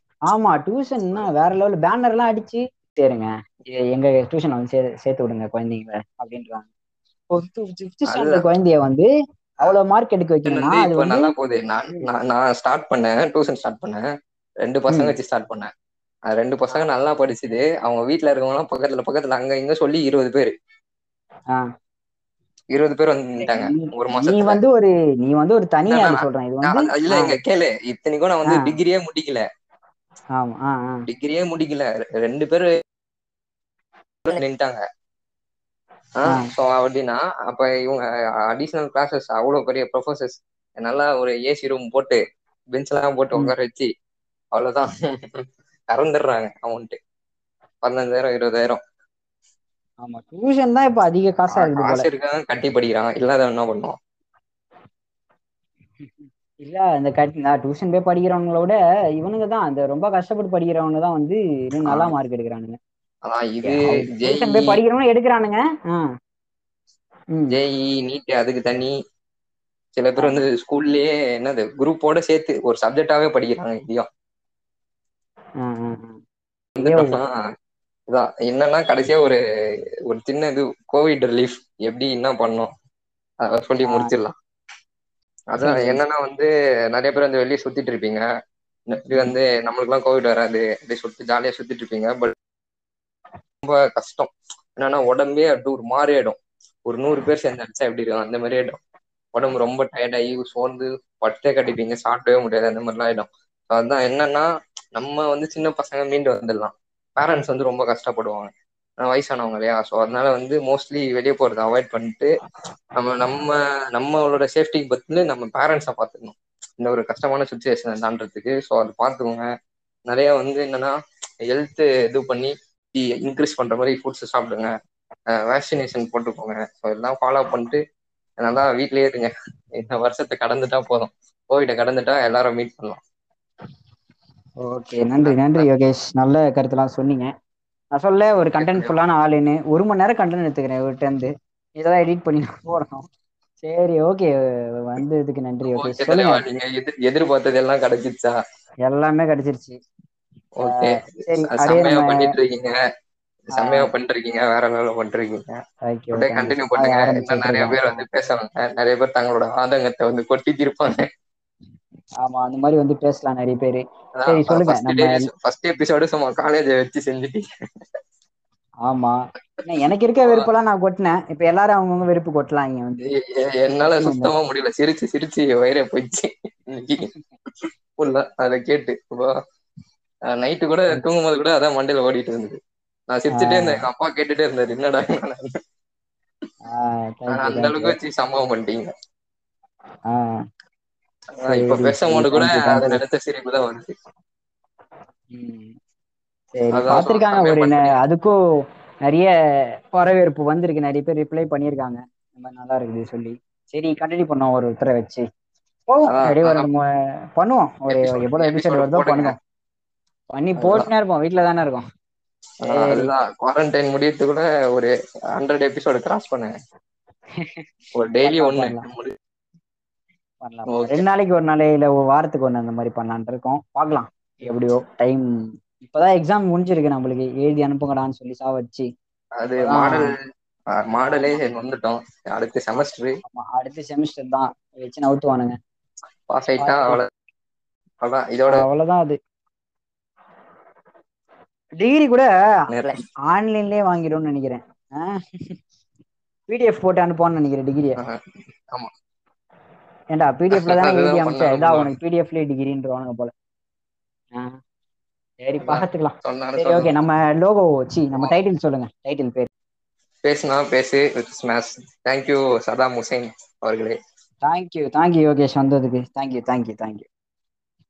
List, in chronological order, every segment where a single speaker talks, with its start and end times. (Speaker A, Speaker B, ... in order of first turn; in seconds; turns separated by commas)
Speaker A: 0.3-6.7, Speaker A: 7.3-9.1, Speaker B: 8.1-8.4, Speaker A: 9.6-11.3, Speaker B: 10.4-14.0, Speaker B: 14.6-15.7, Speaker B: 16.3-20.5, Speaker B: 22.7-24.6, Speaker A: 23.4-27.4, Speaker B: 25.9-29.4, Speaker A: 30.4-31.1, Speaker B: 31.1-32.7, Speaker B: 34.2-34.8, Speaker B: 36.2-42.2, Speaker B: 42.7-43.9, Speaker B: 44.5-47.0, Speaker B: 47.8-48.8, Speaker A: 50.0-52.1, Speaker B: 51.5-54.0, Speaker A: 56.0-62.8, Speaker B: 61.9-62.1, Speaker B: 63.2-64.8, Speaker A: 63.6-66.0, Speaker B: 67.5-68.9, Speaker B: 70.0-74.1, Speaker A: 75.6-76.2, Speaker B: 76.8-77.3, Speaker A: 76.8-77.2, Speaker B: 78.1-79.4, Speaker B: 80.1-82.7, Speaker B: 83.4-84.3, Speaker A: 83.8-84.1, Speaker B: 85.5-88.2, Speaker A: 85.6-86.0, Speaker B: 88.9-92.3, Speaker B: 93.6-98.8, Speaker B: 99.3-108.5, Speaker B: 109.0-112.3, Speaker B: 113.0-119.5, Speaker B: 120.1-120.9, Speaker B: 121.5-124.7, Speaker B: 125.3-127.8, Speaker B: 128.4-133.0, Speaker A: 134.6-137.3, Speaker B: 135.2-135.7, Speaker A: 137.9-143.1, Speaker B: 138.6-138.9, Speaker A: 143.6-144.3, Speaker A: 144.8-146.4, Speaker B: 145.6-148.3, Speaker A: 148.9-149.8, Speaker B: 150.6-152.7, Speaker A: 150.6-152.2, Speaker B: 153.5-155.6, Speaker A: 153.6-153.9, Speaker A: 155.9-158.0, Speaker B: 156.1-161.1, Speaker A: 162.2-165.3, Speaker B: 164.2-167.4, Speaker A: 168.8-173.1, Speaker B: 173.1-177.1, Speaker A: 173.9-174.3, Speaker B: 177.6-179.3, Speaker B: 180.3-182.6, Speaker B: 183.1-185.5, Speaker A: 183.3-183.8, Speaker A: 186.6-188.0, Speaker B: 187.3-188.9, Speaker B: 191.4-193.9, Speaker A: 191.4-193.0, Speaker A: 195.3-195.7, Speaker A: 196.5-198.3, Speaker B: 196.7-197.9, Speaker A: 199.9-205.2, Speaker A: 205.9-206.8, Speaker B: 206.1-206.7, Speaker A: 207.4-209.3, Speaker B: 207.9-209.3, Speaker A: 210.3-211.8, Speaker B: 210.6-210.9, Speaker B: 212.6-216.5, Speaker A: 212.6-213.1, Speaker A: 217.4-217.6, Speaker B: 217.9-219.1, Speaker A: 218.2-218.9, Speaker A: 220.4-225.2, Speaker B: 220.7-221.0, Speaker A: 225.8-228.9, Speaker B: 229.4-230.2, Speaker A: 229.6-230.1, Speaker B: 230.8-233.1, Speaker A: 233.2-235.5, Speaker B: 236.3-237.1, Speaker A: 236.6-237.0, Speaker B: 238.0-238.6, Speaker A: 238.5-239.2, Speaker A: 241.8-242.3, Speaker B: 242.7-243.0, Speaker A: 243.3-245.6, Speaker A: 246.5-248.0, Speaker B: 248.0-248.9, Speaker A: 250.1-253.3, Speaker B: 250.5-251.9, Speaker A: 255.4-259.5, Speaker B: 255.6-256.9, Speaker B: 260.2-264.0, Speaker A: 264.4-267.1